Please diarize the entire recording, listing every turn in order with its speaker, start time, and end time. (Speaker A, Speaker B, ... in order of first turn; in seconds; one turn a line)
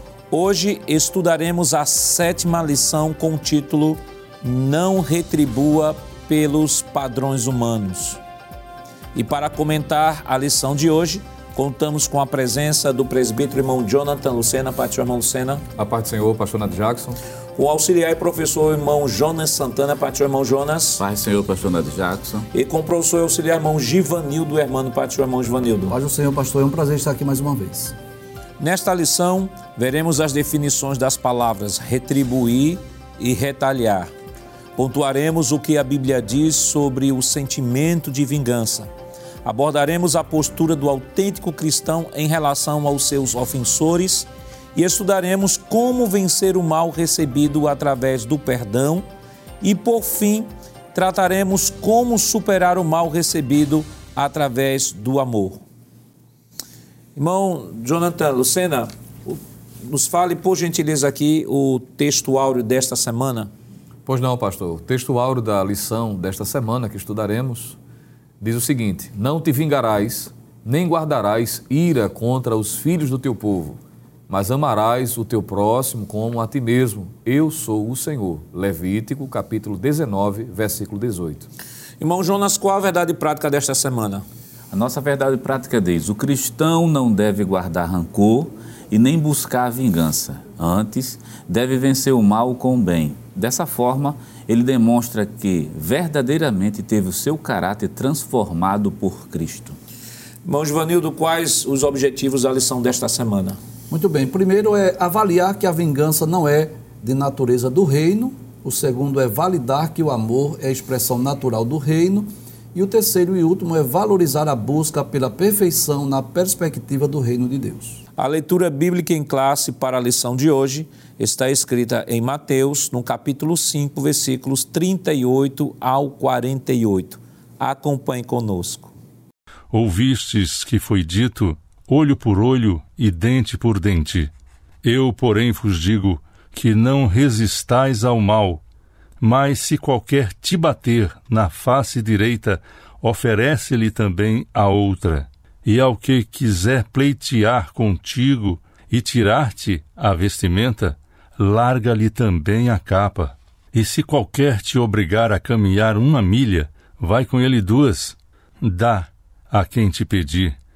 Speaker A: 0.3-8.2
Speaker A: 9.1-15.6
Speaker B: 15.8-17.2
Speaker A: 17.6-21.0
Speaker C: 21.0-22.5
Speaker A: 22.5-26.0
Speaker D: 25.9-27.9
Speaker A: 28.6-34.1
Speaker A: 34.8-38.9
Speaker A: 39.5-49.0
Speaker A: 49.6-55.6
Speaker A: 57.2-63.5
Speaker B: 64.1-67.8
Speaker B: 68.4-81.5
Speaker A: 82.0-84.2
Speaker C: 84.7-99.8
Speaker A: 100.5-103.6
Speaker D: 103.9-118.0
Speaker A: 118.2-128.9
Speaker E: 129.7-134.3
Speaker E: 134.8-138.6
Speaker E: 139.2-160.6